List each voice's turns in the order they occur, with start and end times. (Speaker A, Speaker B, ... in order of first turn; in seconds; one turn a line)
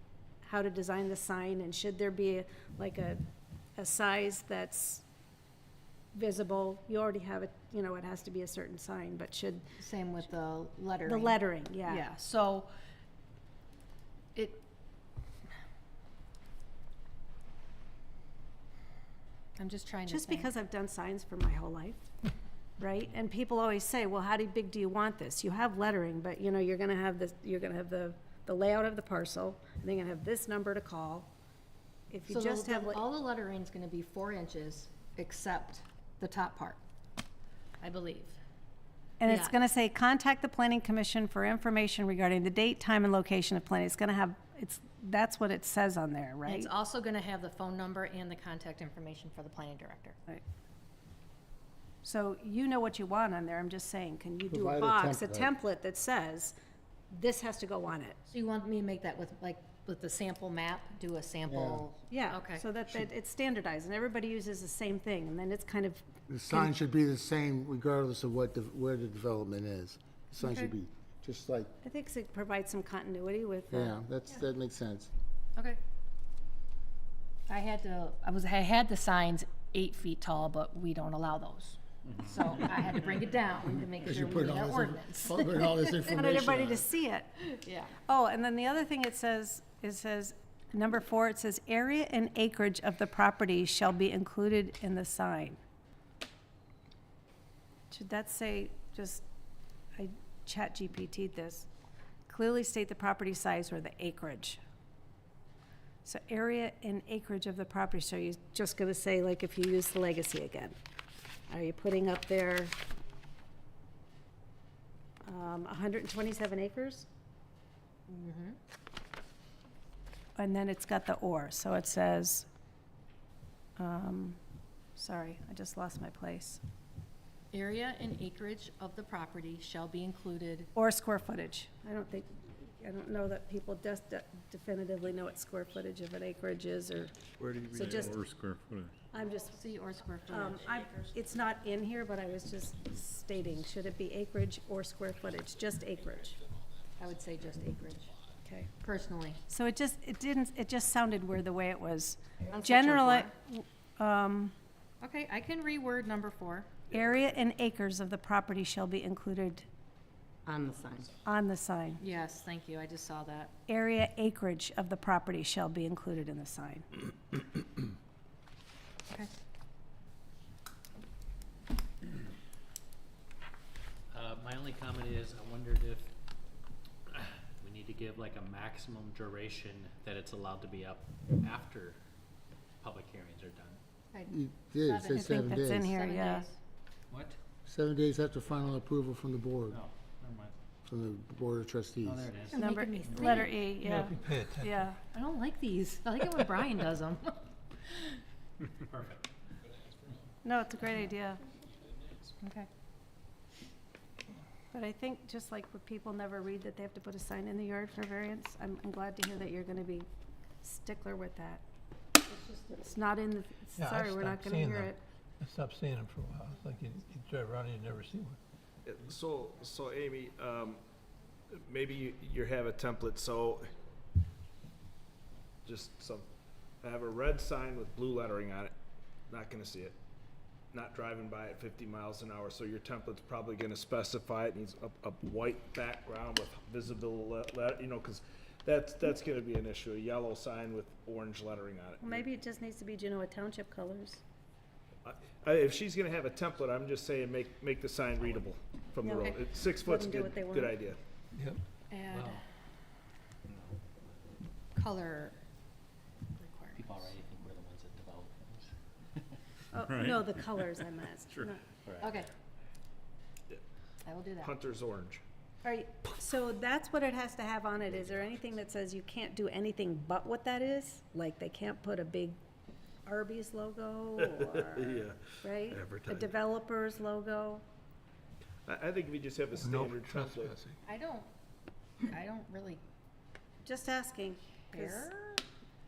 Speaker A: 0.4-3.2
Speaker A: 3.8-5.0
Speaker A: 6.1-9.6
Speaker B: 9.8-12.7
Speaker A: 11.1-12.1
Speaker B: 14.3-14.6
Speaker B: 19.6-20.5
Speaker A: 20.1-22.1
Speaker A: 22.8-31.3
Speaker A: 32.1-33.0
Speaker B: 32.3-36.8
Speaker B: 37.8-38.4
Speaker A: 39.2-46.7
Speaker B: 39.2-39.6
Speaker B: 46.5-50.2
Speaker A: 52.0-56.5
Speaker C: 54.5-55.5
Speaker A: 57.1-58.2
Speaker B: 58.3-62.6
Speaker C: 61.5-61.9
Speaker A: 62.1-66.7
Speaker C: 66.3-71.7
Speaker B: 70.4-70.7
Speaker A: 71.8-74.0
Speaker C: 73.7-75.1
Speaker B: 77.5-86.3
Speaker D: 82.0-82.8
Speaker C: 83.9-86.9
Speaker A: 86.1-87.3
Speaker B: 87.5-87.9
Speaker A: 88.1-95.6
Speaker A: 97.9-99.2
Speaker A: 100.0-101.7
Speaker A: 102.3-104.6
Speaker A: 106.0-110.8
Speaker A: 111.5-112.8
Speaker A: 115.2-117.1
Speaker B: 118.1-118.6
Speaker A: 120.4-122.5
Speaker A: 123.8-124.4
Speaker A: 125.0-126.6
Speaker B: 127.5-130.7
Speaker A: 130.8-138.2
Speaker E: 137.4-138.9
Speaker A: 139.1-139.5
Speaker B: 139.5-141.1
Speaker A: 140.3-146.4
Speaker B: 147.0-148.1
Speaker B: 148.8-149.4
Speaker A: 149.5-154.5
Speaker B: 152.5-153.3
Speaker B: 155.0-156.7
Speaker F: 156.9-157.4
Speaker A: 156.9-159.7
Speaker G: 160.6-161.1
Speaker E: 160.7-161.2
Speaker A: 161.2-162.0
Speaker B: 162.0-163.5
Speaker A: 163.7-166.9
Speaker D: 174.1-176.1
Speaker D: 177.1-182.0
Speaker D: 182.8-183.8
Speaker B: 184.1-186.6
Speaker C: 184.3-185.9
Speaker A: 185.2-186.5
Speaker D: 187.1-187.4
Speaker C: 187.7-189.8
Speaker D: 189.7-190.6
Speaker C: 190.9-192.3
Speaker D: 192.0-193.4
Speaker B: 192.4-193.7
Speaker A: 192.6-195.0
Speaker E: 193.8-194.5
Speaker G: 194.1-194.6
Speaker B: 195.1-197.4
Speaker D: 198.9-199.3
Speaker A: 200.4-201.4
Speaker B: 202.4-202.7
Speaker A: 204.7-210.1
Speaker A: 210.6-211.6
Speaker B: 212.3-212.9
Speaker A: 212.8-215.0
Speaker G: 213.8-218.3
Speaker E: 216.5-217.9
Speaker F: 218.8-220.8
Speaker F: 221.6-223.7
Speaker F: 225.7-226.3
Speaker F: 226.8-228.7
Speaker F: 229.3-230.0
Speaker F: 230.7-242.3
Speaker A: 242.0-244.2
Speaker F: 245.0-251.0
Speaker A: 249.0-250.8
Speaker B: 251.9-252.4
Speaker D: 252.1-252.4
Speaker D: 253.5-253.8
Speaker B: 254.8-255.4
Speaker B: 256.4-257.1
Speaker D: 256.8-259.4
Speaker A: 259.7-261.6
Speaker E: 259.9-260.6
Speaker D: 261.8-262.2
Speaker B: 262.0-262.3
Speaker B: 264.1-264.6
Speaker F: 264.4-265.2
Speaker A: 265.6-272.4
Speaker D: 267.9-268.2
Speaker A: 273.1-277.6
Speaker F: 274.2-276.3
Speaker F: 278.7-280.6
Speaker G: 279.6-280.7
Speaker B: 280.8-281.3
Speaker B: 282.0-282.8
Speaker A: 283.6-285.1
Speaker B: 284.7-285.4